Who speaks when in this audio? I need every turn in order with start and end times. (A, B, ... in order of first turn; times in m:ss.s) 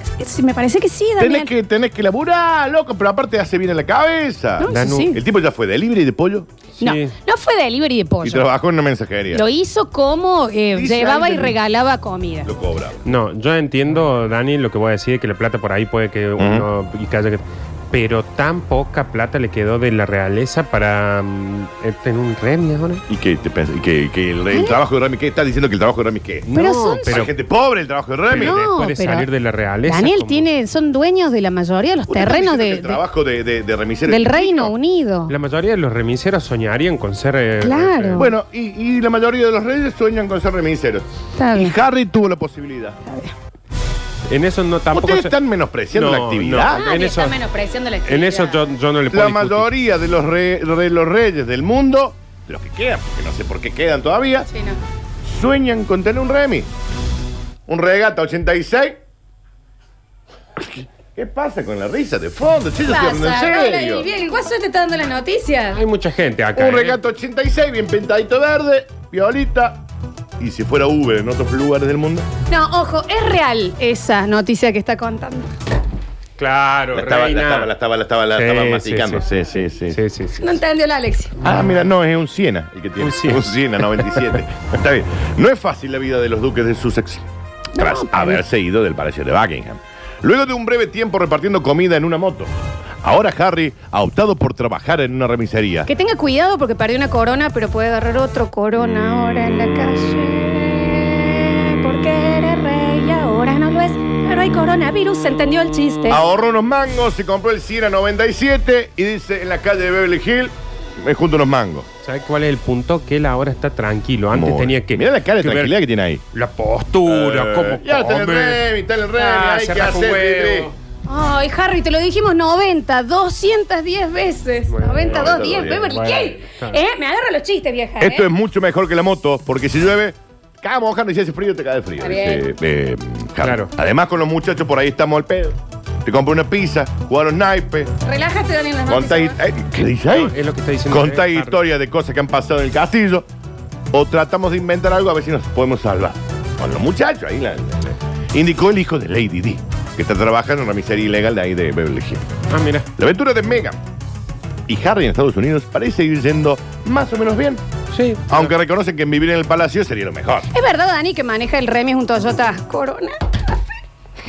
0:00.2-0:01.5 A
0:01.2-0:06.5 B
0:04.6-0:05.2 A
0:04.7-0:05.1 C
0:06.8-0:07.1 C
0:06.8-0:08.5 A
0:08.2-0:09.4 B
0:09.3-0:12.5 A
0:10.7-0:11.6 B
0:12.4-0:13.0 B
0:13.0-0:23.0 C
0:16.4-0:16.7 B
0:23.1-0:26.5 B
0:24.5-0:24.8 A
0:26.5-0:27.3 C
0:26.5-0:27.2 A
0:27.1-0:28.6 B
0:28.3-0:30.5 C
0:28.3-0:29.3 A
0:29.9-0:33.0 A
0:32.1-0:34.7 B
0:34.1-0:35.3 A
0:35.3-0:38.3 C
0:37.6-0:38.3 A
0:38.2-0:43.0 B
0:41.4-0:41.8 A
0:43.1-0:43.3 A
0:44.3-0:45.3 C
0:44.9-0:46.8 B
0:45.9-0:47.4 C
0:46.7-0:48.6 A
0:48.1-0:49.7 C
0:49.1-0:54.5 B
0:54.5-0:54.8 A
0:55.2-0:56.7 B
0:57.7-0:59.0 B
1:00.6-1:04.1 B
1:02.8-1:05.8 A
1:05.7-1:07.0 C
1:06.6-1:09.8 B
1:10.4-1:12.3 B
1:12.5-1:15.5 A
1:16.4-1:17.7 C
1:16.9-1:20.0 B
1:18.4-1:19.3 C
1:19.9-1:20.6 C
1:20.4-1:21.4 A
1:21.4-1:35.9 B
1:23.0-1:24.2 C
1:27.8-1:28.4 A
1:35.9-1:46.2 A
1:46.1-1:51.9 B
1:52.0-1:55.7 C
1:54.3-1:56.2 B
1:56.3-1:58.6 C
1:57.1-2:00.7 B
1:59.2-2:00.8 C
2:01.1-2:08.3 A
2:04.7-2:06.8 C
2:05.1-2:05.9 B
2:08.0-2:17.9 B
2:12.0-2:12.4 A
2:13.4-2:13.7 C
2:18.0-2:19.4 A
2:18.9-2:20.4 B
2:20.1-2:21.6 C
2:20.9-2:23.3 B
2:23.9-2:32.3 B
2:32.5-2:32.9 C
2:33.0-2:33.8 B
2:34.7-2:37.6 B
2:37.9-2:38.5 C
2:38.3-2:40.5 B
2:40.5-2:43.6 A